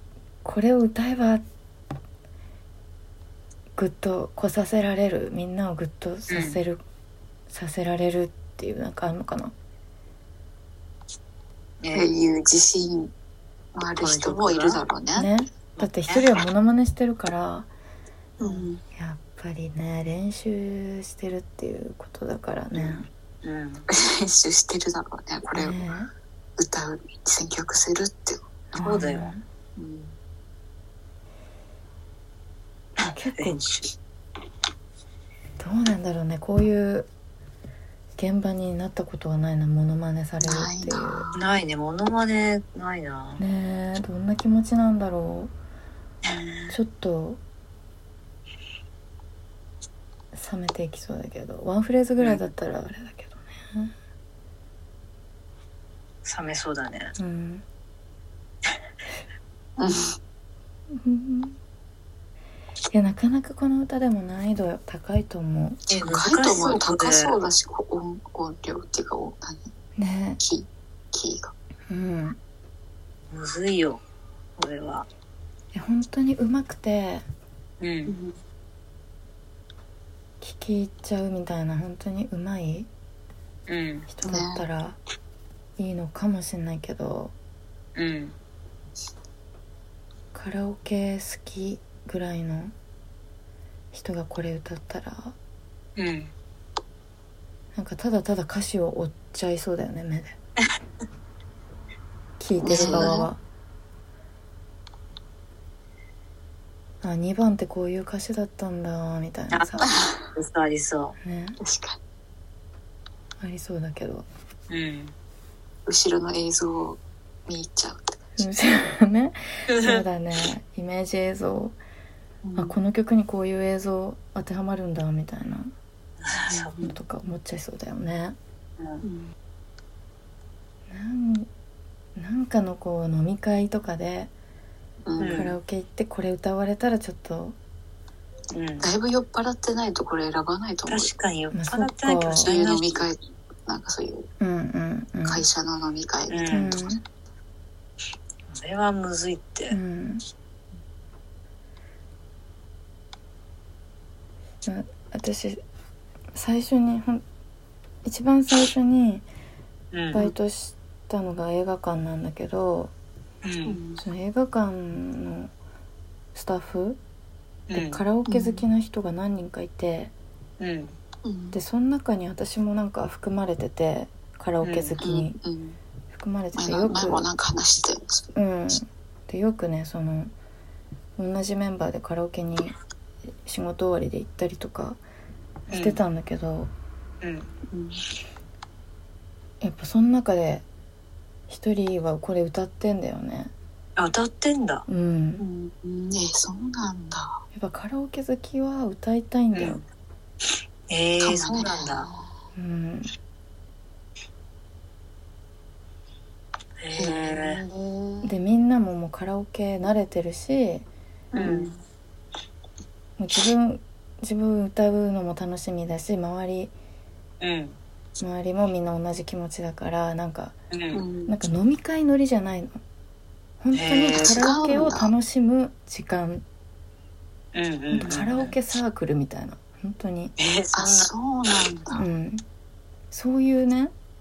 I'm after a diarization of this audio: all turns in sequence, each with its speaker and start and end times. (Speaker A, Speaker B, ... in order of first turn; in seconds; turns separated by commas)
Speaker A: 0.4-1.4, Speaker A: 3.8-6.8, Speaker B: 6.3-6.6, Speaker A: 7.5-9.5, Speaker B: 11.8-12.1, Speaker C: 11.9-13.1, Speaker C: 13.7-15.3, Speaker B: 14.0-14.8, Speaker A: 15.1-17.7, Speaker B: 15.8-16.4, Speaker C: 18.4-18.8, Speaker A: 18.9-23.1, Speaker B: 22.8-23.9, Speaker C: 23.9-25.8, Speaker A: 25.5-26.1, Speaker C: 26.6-29.0, Speaker A: 28.7-29.4, Speaker B: 28.8-29.3, Speaker C: 29.8-30.1, Speaker B: 33.0-33.8, Speaker A: 33.1-33.6, Speaker A: 35.6-37.1, Speaker A: 38.1-41.3, Speaker C: 40.4-41.4, Speaker B: 41.3-43.4, Speaker A: 43.4-45.5, Speaker C: 46.3-46.7, Speaker A: 46.7-47.4, Speaker A: 50.3-53.9, Speaker B: 56.2-57.1, Speaker A: 57.2-57.6, Speaker C: 59.8-60.1, Speaker A: 60.9-61.6, Speaker A: 62.9-65.8, Speaker B: 65.9-67.3, Speaker C: 65.9-69.7, Speaker A: 70.0-70.4, Speaker C: 70.4-71.5, Speaker A: 71.9-72.4, Speaker B: 73.3-74.0, Speaker B: 74.6-75.1, Speaker A: 75.7-77.2, Speaker B: 77.8-78.1, Speaker C: 78.0-78.4, Speaker A: 80.4-82.9, Speaker B: 83.7-84.1, Speaker A: 84.1-85.0, Speaker C: 84.2-84.6, Speaker A: 85.8-87.3, Speaker B: 87.9-88.3, Speaker A: 90.3-92.7, Speaker A: 93.9-95.3, Speaker B: 96.0-96.3, Speaker A: 97.7-100.3, Speaker A: 102.4-103.4, Speaker C: 102.6-103.3, Speaker B: 102.7-103.1, Speaker A: 107.0-109.9, Speaker B: 109.5-109.8, Speaker C: 109.8-110.2, Speaker B: 110.3-111.1, Speaker A: 111.2-111.6, Speaker C: 111.6-112.0, Speaker A: 113.4-114.2, Speaker B: 114.7-115.1, Speaker C: 115.8-118.2, Speaker A: 118.4-121.8, Speaker B: 119.7-120.0, Speaker C: 122.4-122.8, Speaker A: 122.5-125.7, Speaker B: 126.2-126.8, Speaker C: 126.4-127.0, Speaker A: 126.8-128.4, Speaker B: 128.8-129.0, Speaker C: 129.0-129.3, Speaker A: 130.9-131.5, Speaker A: 132.2-134.3, Speaker C: 135.1-135.5, Speaker B: 135.2-135.6, Speaker A: 135.2-137.6, Speaker B: 138.5-138.9, Speaker C: 138.8-141.1, Speaker B: 140.9-143.0, Speaker A: 141.5-142.5, Speaker C: 142.4-144.3, Speaker A: 144.4-145.4, Speaker C: 145.2-146.9, Speaker B: 146.3-146.8, Speaker A: 146.5-147.0, Speaker B: 148.5-149.8, Speaker A: 149.7-150.2, Speaker A: 154.6-155.6, Speaker A: 156.3-157.2, Speaker A: 158.0-159.2, Speaker B: 159.9-160.3, Speaker A: 160.1-162.9, Speaker B: 163.4-163.8, Speaker C: 163.7-164.0, Speaker A: 164.0-165.5, Speaker A: 166.3-167.0, Speaker B: 167.7-168.0, Speaker A: 167.7-170.1, Speaker C: 168.2-168.6, Speaker B: 170.6-170.9, Speaker C: 171.2-171.6, Speaker A: 171.5-175.3, Speaker B: 174.6-175.0, Speaker C: 175.0-175.8, Speaker A: 176.1-177.2, Speaker C: 176.6-178.3, Speaker A: 178.3-180.3, Speaker A: 181.2-182.7, Speaker A: 183.4-185.0, Speaker A: 185.7-186.7, Speaker B: 185.7-186.0, Speaker B: 187.2-187.5, Speaker C: 187.7-188.0, Speaker A: 189.6-190.6, Speaker A: 191.5-193.5, Speaker B: 194.0-194.8, Speaker A: 194.9-195.4, Speaker C: 195.4-197.4, Speaker A: 197.5-199.8, Speaker B: 199.5-199.8, Speaker B: 200.9-202.1, Speaker C: 201.2-202.3, Speaker A: 202.5-203.1, Speaker B: 206.8-207.6, Speaker C: 206.9-208.3, Speaker A: 208.2-210.9, Speaker C: 211.3-211.8, Speaker B: 211.3-211.7, Speaker A: 213.2-216.7, Speaker B: 217.4-217.8, Speaker A: 218.2-220.6, Speaker B: 220.7-221.0, Speaker C: 220.9-221.3, Speaker A: 221.3-222.8, Speaker A: 223.6-226.4, Speaker B: 223.7-224.4, Speaker C: 224.1-225.1, Speaker B: 227.5-228.5, Speaker A: 227.9-230.3, Speaker B: 230.4-231.1, Speaker C: 230.7-232.0, Speaker A: 231.9-232.4, Speaker A: 233.1-233.9